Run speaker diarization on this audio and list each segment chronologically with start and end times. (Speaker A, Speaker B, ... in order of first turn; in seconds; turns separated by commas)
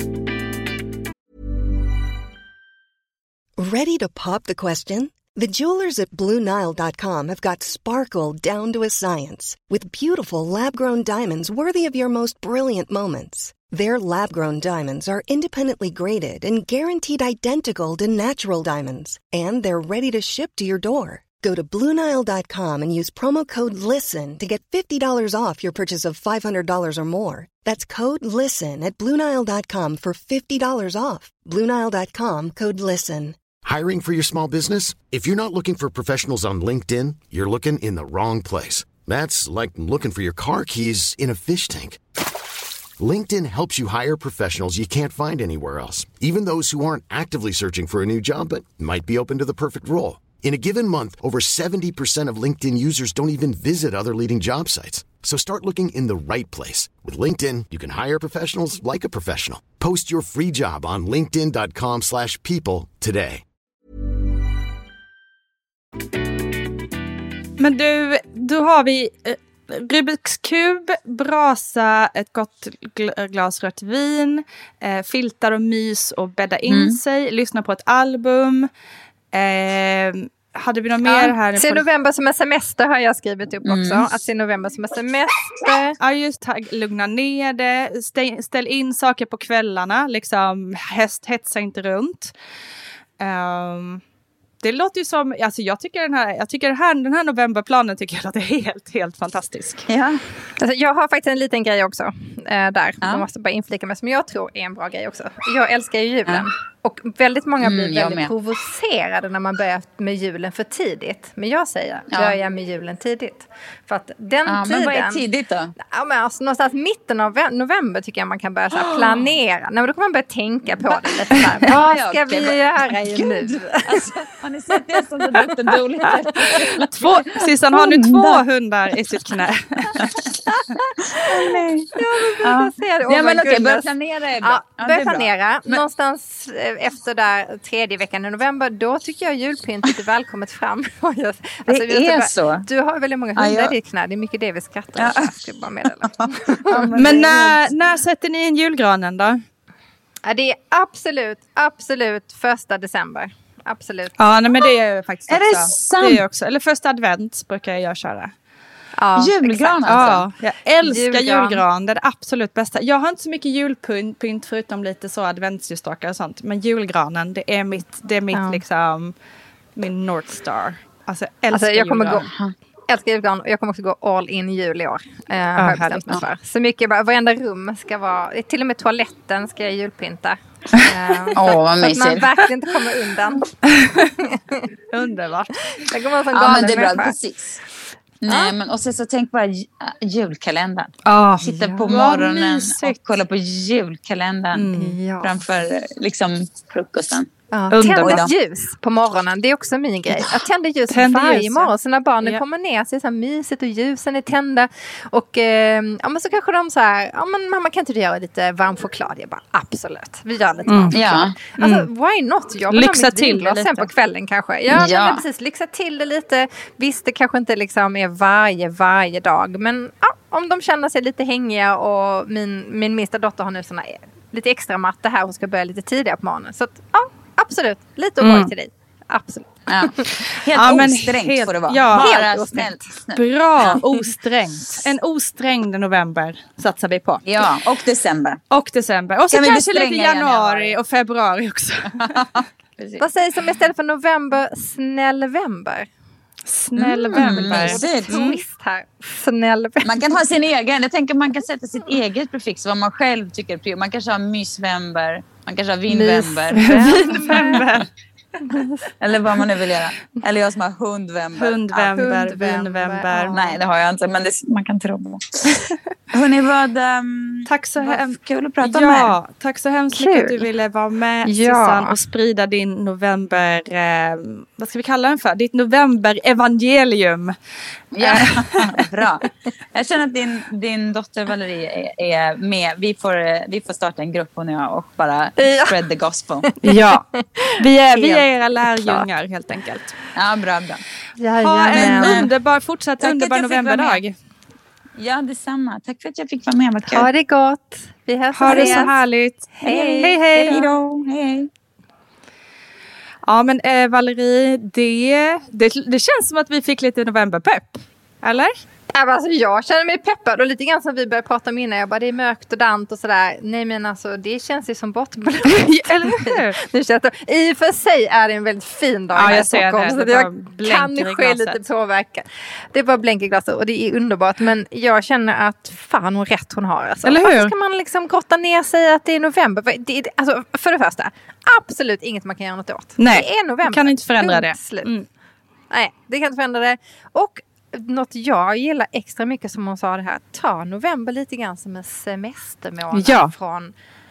Speaker A: 3.6-33.4, Speaker B: 33.6-42.0, Speaker B: 43.0-63.4, Speaker C: 67.6-78.7, Speaker D: 76.7-77.0, Speaker C: 79.3-81.8, Speaker E: 81.0-86.0, Speaker D: 83.6-84.1, Speaker C: 86.0-92.3, Speaker C: 93.2-94.0, Speaker C: 94.6-99.8, Speaker D: 99.9-100.2, Speaker E: 100.6-115.2, Speaker D: 107.6-108.3, Speaker D: 114.5-115.7, Speaker E: 115.8-124.1, Speaker D: 118.9-119.2, Speaker D: 120.8-128.4, Speaker C: 126.9-129.9, Speaker D: 129.9-135.8, Speaker E: 130.5-131.3, Speaker E: 131.9-147.3, Speaker D: 141.7-142.6, Speaker D: 143.4-143.7, Speaker D: 144.9-145.3, Speaker D: 146.0-147.7, Speaker C: 146.9-149.4, Speaker E: 150.2-154.2, Speaker C: 154.2-158.3, Speaker D: 155.3-156.2, Speaker E: 158.9-160.2, Speaker D: 159.2-160.2, Speaker C: 159.9-169.1, Speaker E: 160.8-161.6, Speaker E: 168.3-168.6, Speaker C: 169.8-172.2, Speaker E: 171.5-172.3, Speaker D: 172.2-172.5, Speaker E: 172.9-184.7, Speaker C: 175.6-176.2, Speaker D: 181.3-182.3, Speaker C: 183.7-184.1, Speaker C: 184.9-185.9, Speaker E: 185.7-187.1, Speaker D: 186.3-187.6, Speaker C: 186.5-186.8, Speaker D: 188.2-197.3, Speaker E: 188.3-188.5, Speaker C: 191.0-193.0, Speaker E: 191.7-192.0, Speaker C: 194.5-195.0, Speaker E: 194.7-195.3, Speaker E: 197.5-230.1, Speaker C: 197.7-198.2, Speaker D: 197.9-198.3, Speaker C: 200.9-201.7, Speaker C: 210.7-211.0, Speaker D: 210.9-211.3, Speaker C: 211.6-211.9, Speaker C: 212.7-213.9, Speaker D: 214.7-215.2, Speaker C: 228.2-228.5, Speaker D: 229.7-233.7, Speaker C: 230.5-232.2, Speaker E: 231.9-232.7, Speaker C: 233.1-237.2, Speaker E: 233.7-234.0, Speaker D: 237.2-238.4, Speaker C: 238.5-242.2, Speaker D: 239.3-240.8, Speaker D: 242.0-243.1, Speaker E: 243.0-245.9, Speaker C: 246.5-248.4, Speaker D: 246.8-248.1, Speaker E: 247.1-250.0, Speaker D: 249.8-257.8, Speaker E: 255.9-257.6, Speaker C: 256.6-257.9, Speaker E: 258.5-258.8, Speaker D: 259.0-262.0, Speaker C: 261.4-263.4, Speaker E: 262.0-263.5, Speaker D: 263.3-265.6, Speaker D: 266.1-269.1, Speaker C: 267.5-277.3, Speaker E: 269.9-270.4, Speaker E: 271.2-271.9, Speaker D: 277.9-286.4, Speaker C: 278.0-278.8, Speaker E: 285.4-285.8, Speaker E: 286.5-288.2, Speaker C: 286.6-287.0, Speaker C: 287.6-289.9, Speaker E: 288.8-289.0, Speaker D: 290.1-290.8, Speaker E: 291.2-292.2, Speaker C: 291.4-294.1, Speaker D: 291.7-292.3, Speaker D: 293.0-294.0, Speaker D: 295.0-297.1, Speaker E: 296.9-298.9, Speaker C: 298.4-300.6, Speaker D: 298.4-298.9, Speaker E: 299.6-300.6, Speaker D: 299.6-301.5, Speaker C: 303.2-308.6, Speaker E: 308.9-334.9, Speaker C: 315.5-316.6, Speaker C: 319.1-321.6, Speaker C: 327.0-327.5, Speaker C: 333.0-335.1, Speaker E: 335.7-343.7, Speaker C: 342.9-343.3